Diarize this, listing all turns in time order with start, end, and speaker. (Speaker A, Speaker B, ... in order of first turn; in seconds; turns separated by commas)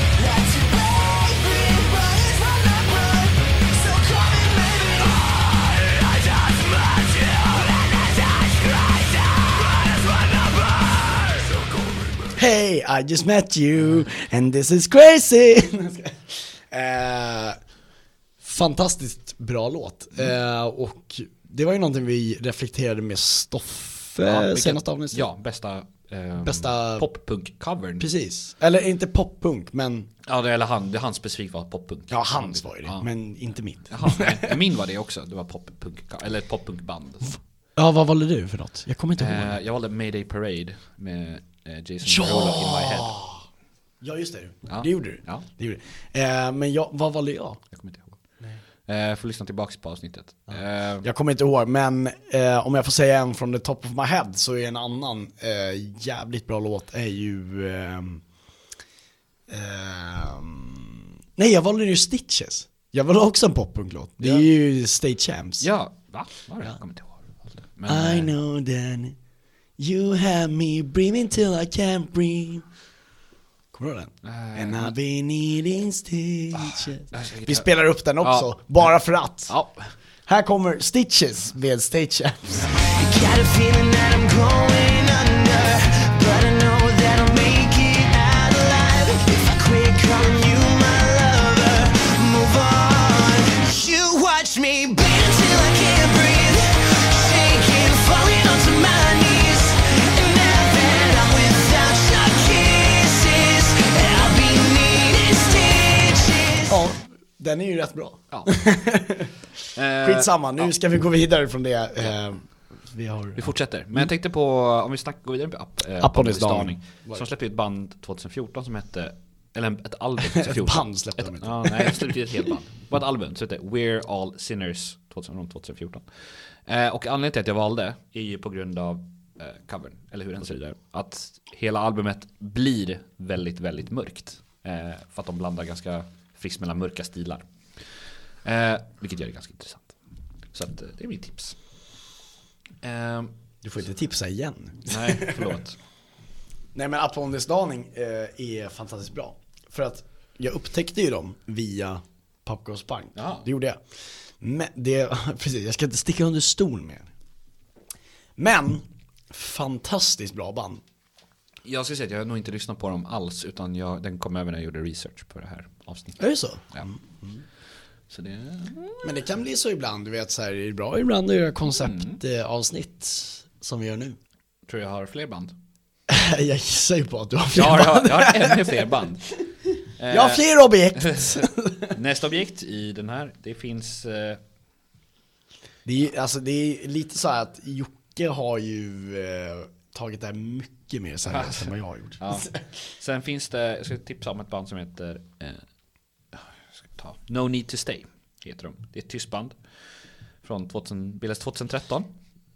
Speaker A: 0.2-12.3, Speaker B: 12.3-17.6, Speaker B: 18.4-25.3, Speaker C: 24.2-28.1, Speaker B: 26.4-27.1, Speaker B: 28.0-30.1, Speaker C: 30.2-33.1, Speaker B: 32.1-34.6, Speaker C: 33.9-37.4, Speaker B: 37.8-39.6, Speaker C: 39.2-43.2, Speaker B: 42.0-43.4, Speaker B: 44.0-47.6, Speaker C: 44.7-45.5, Speaker C: 47.7-48.2, Speaker C: 48.9-51.1, Speaker B: 51.0-58.2, Speaker B: 59.5-65.7, Speaker C: 64.2-64.5, Speaker C: 65.6-68.3, Speaker B: 67.9-69.2, Speaker B: 69.8-72.7, Speaker B: 73.7-79.5, Speaker C: 74.2-74.9, Speaker C: 76.5-77.7, Speaker C: 78.2-78.9, Speaker C: 79.5-79.9, Speaker B: 80.3-82.7, Speaker A: 82.8-106.8, Speaker B: 106.7-109.3, Speaker C: 108.3-108.6, Speaker C: 109.7-110.7, Speaker B: 110.0-114.1, Speaker C: 113.4-137.5, Speaker B: 116.0-117.3, Speaker B: 120.3-122.1, Speaker C: 138.4-139.9, Speaker C: 140.5-141.6, Speaker C: 142.8-143.3, Speaker B: 143.6-145.5, Speaker C: 144.9-145.8, Speaker B: 146.7-153.8, Speaker C: 153.2-153.5, Speaker B: 154.4-157.1, Speaker B: 158.4-160.8, Speaker C: 161.7-166.2, Speaker B: 166.2-167.4, Speaker C: 168.1-169.1, Speaker B: 169.0-174.2, Speaker C: 171.8-172.2, Speaker C: 174.7-175.6, Speaker B: 176.1-178.9, Speaker C: 177.5-179.3, Speaker C: 180.0-184.4, Speaker B: 180.1-181.9, Speaker B: 185.9-192.6, Speaker C: 191.3-195.6, Speaker C: 196.3-199.6, Speaker C: 200.4-202.1